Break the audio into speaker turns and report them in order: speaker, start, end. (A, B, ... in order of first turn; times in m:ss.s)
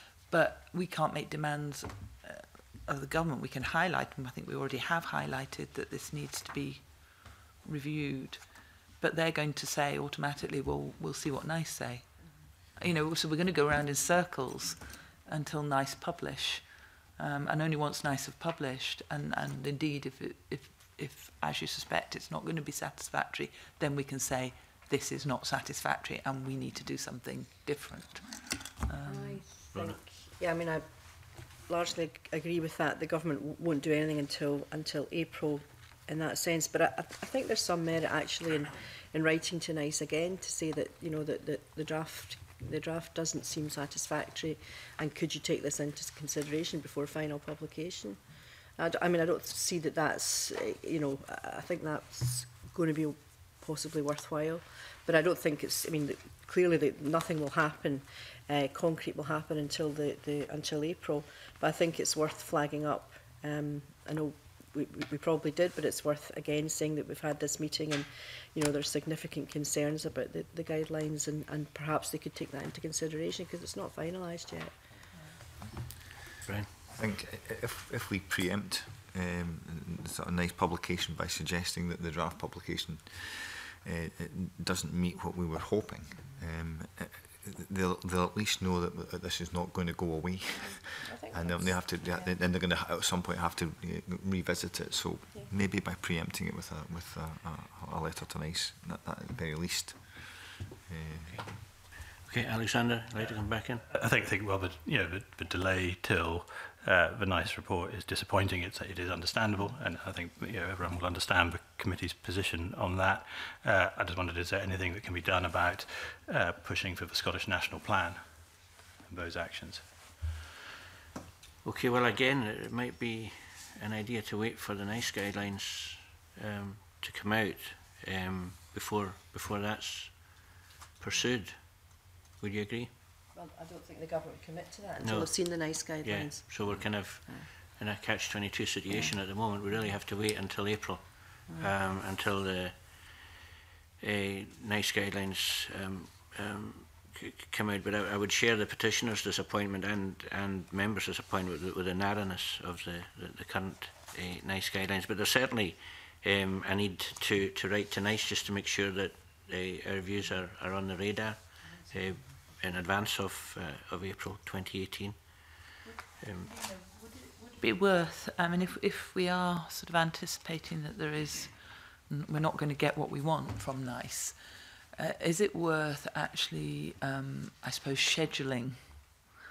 0:00.2-0:29.4 A
0:29.0-1:14.8 B
0:29.7-0:30.0 C
1:16.9-1:41.4 D
1:30.7-1:31.8 B
1:41.3-1:43.8 C
1:43.9-1:59.9 E
2:01.6-2:12.9 C
2:13.3-2:17.5 B
2:15.0-2:23.2 C
2:24.0-2:45.2 C
2:46.2-2:46.5 C
2:46.5-2:54.4 A
2:54.9-2:59.2 A